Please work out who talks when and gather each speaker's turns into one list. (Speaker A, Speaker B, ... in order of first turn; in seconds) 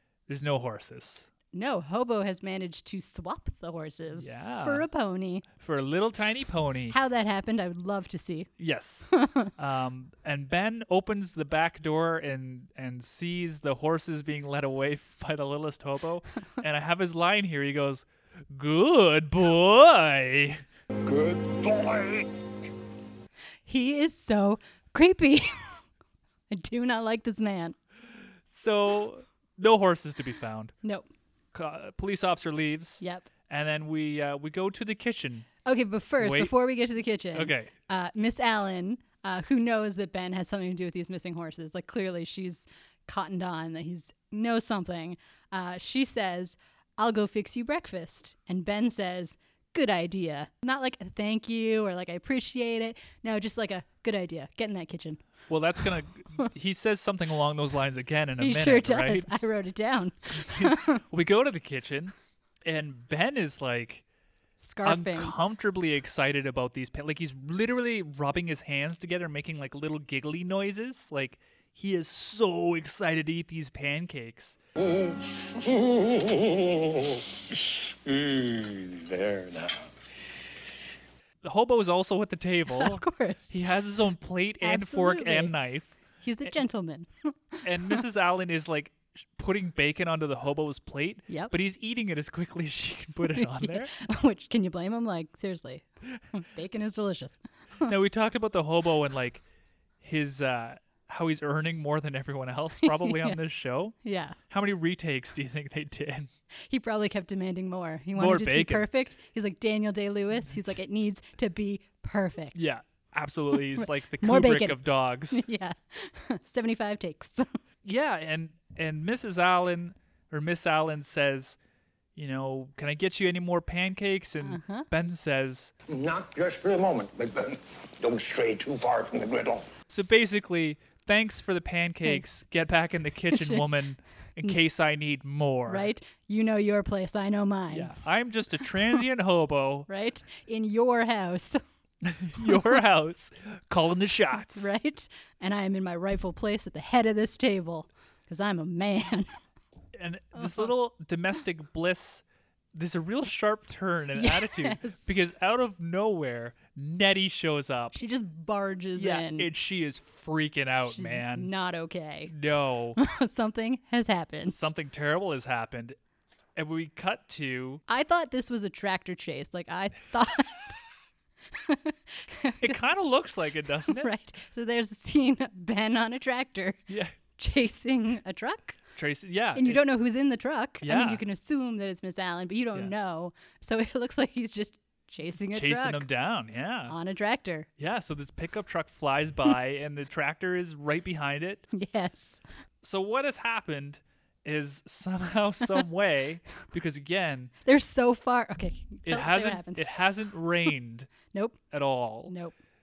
Speaker A: 0.3-1.3, 4.1-4.9, 5.6-7.0, 8.6-20.6, 28.5-30.7, 31.5-35.5, 36.2-36.5, 37.3-37.7, 55.5-59.3, 60.3-64.0, 64.8-74.6, 81.4-86.5, 87.6-93.9, 97.9-99.4, 100.0-104.0, 104.5-106.3, 108.2-108.9, 112.5-115.5, 117.8-121.6, 122.2-125.7, 129.9-135.9, 137.7-139.9, 142.0-144.7, 149.9-158.0, 159.0-161.5, 162.3-163.0, 164.5-166.0, 166.6-167.8, 172.6-174.1, 176.9-177.2, 178.9-179.9, 180.8-181.2, 185.4-186.9, 187.8-191.7, 192.8-197.5, 199.1-201.1, 201.7-202.3
Speaker B: 1.5-5.5, 6.9-8.5, 9.1-9.5, 23.7-25.8, 26.5-27.8, 33.0-33.3, 35.6-55.2, 58.4-61.0, 64.6-65.4, 82.7-83.6, 84.6-85.5, 86.2-88.0, 93.3-97.9, 102.8-103.4, 104.0-104.4, 106.7-112.7, 113.5-117.5, 124.4-124.9, 133.3-133.7, 135.7-137.9, 139.9-141.6, 142.4-142.8, 144.6-149.3, 150.4-150.7, 154.2-155.1, 157.9-159.5, 160.9-162.3, 163.0-164.7, 167.9-170.8, 171.5-172.8, 173.9-178.8, 179.6-186.1, 186.9-187.7, 191.7-192.4, 197.7-199.9, 201.3-201.6, 202.3-202.6
Speaker C: 21.0-22.3, 74.8-79.9, 125.9-129.7